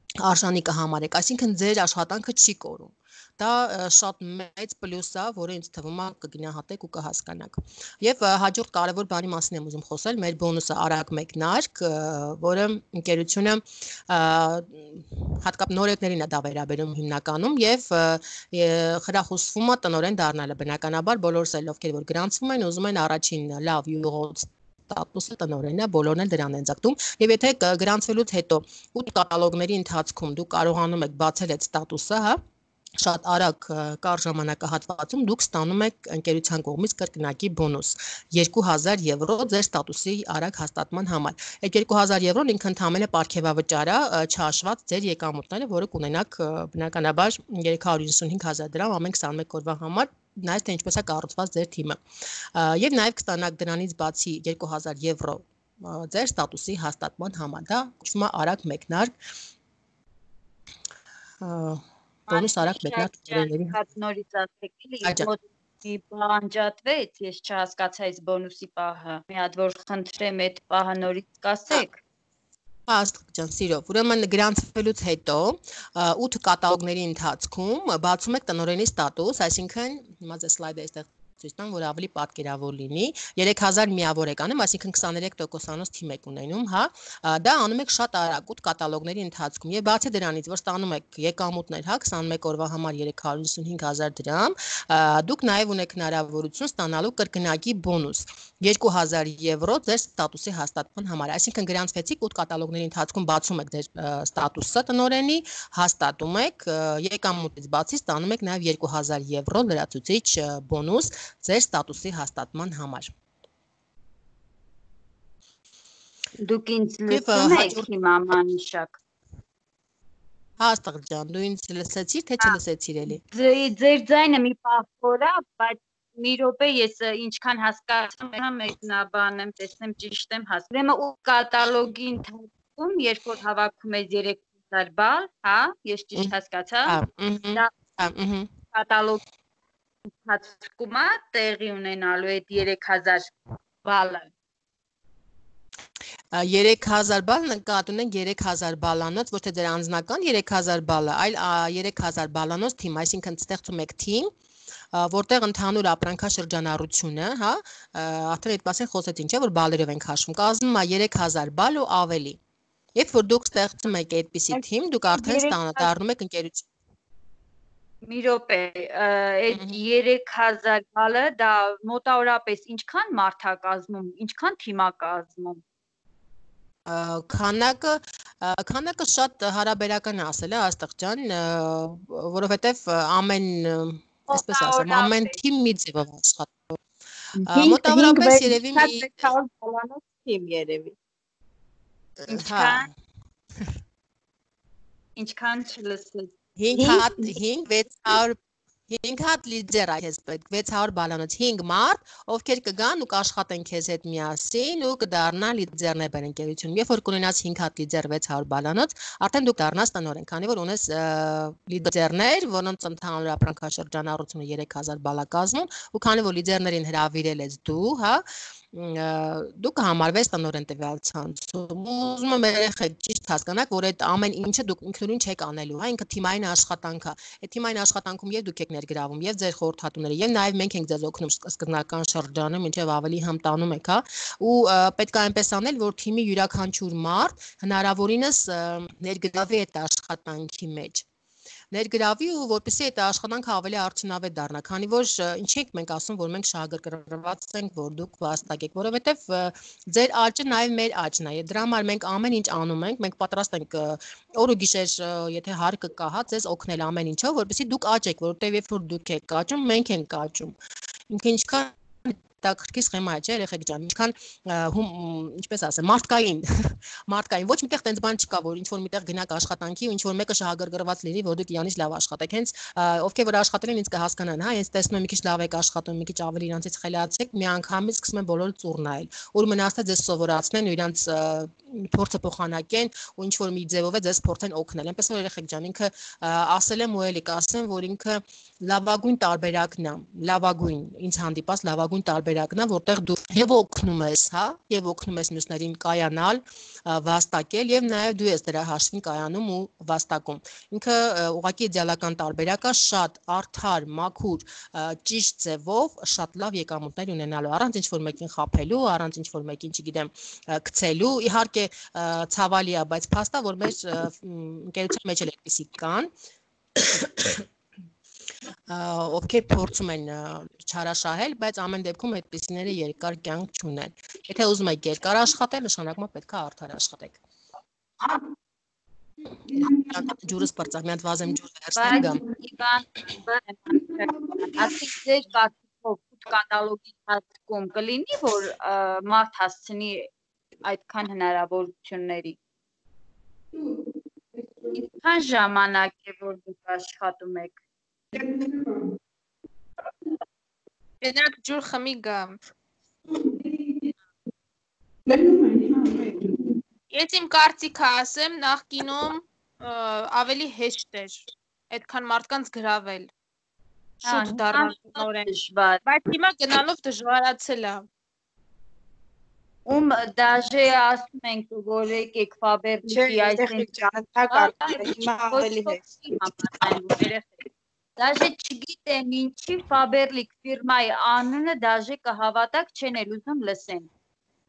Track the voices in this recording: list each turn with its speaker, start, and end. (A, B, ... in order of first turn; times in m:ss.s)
0:00.2-0:32.4 A
0:33.0-0:52.0 A
0:52.5-0:59.1 A
1:01.4-1:03.8 A
1:02.3-1:12.0 B
1:05.0-1:05.3 A
1:12.9-1:53.1 A
1:56.4-1:59.0 B
1:57.1-1:57.9 A
2:00.6-2:03.2 A
2:03.2-2:17.0 B
2:16.9-2:18.5 A
2:18.7-2:19.2 B
2:20.2-2:23.3 B
2:23.8-2:24.3 B
2:26.3-2:34.3 A
2:34.9-2:42.4 A
2:43.0-2:46.7 A
2:44.5-2:45.9 B
2:48.1-2:55.6 B
2:49.5-2:49.8 A
2:56.9-3:06.8 A
3:04.3-3:05.4 B
3:07.4-3:09.3 A
3:07.4-3:11.0 B
3:12.2-3:12.9 A
3:12.3-3:12.9 B
3:15.2-3:17.3 B
3:16.6-3:18.4 A
3:18.9-4:01.0 A
4:01.7-4:20.5 A
4:21.1-5:16.1 A
5:16.8-5:17.4 A
5:18.7-5:27.2 A
5:28.0-5:28.3 C
5:29.5-5:30.6 C
5:29.6-5:32.2 A
5:31.8-5:40.1 B
5:33.7-5:34.7 C
5:40.6-5:42.4 B
5:43.5-5:44.8 C
5:44.8-5:47.6 B
5:48.1-5:49.0 C
5:51.0-5:52.4 D
5:53.1-5:53.9 C
5:55.1-5:56.6 C
5:56.9-6:03.1 D
6:04.0-6:05.3 D
6:04.0-6:05.8 B
6:05.8-6:07.9 D
6:09.7-6:13.7 B
6:12.9-6:16.8 C
6:14.3-6:17.4 B
6:18.0-6:23.9 B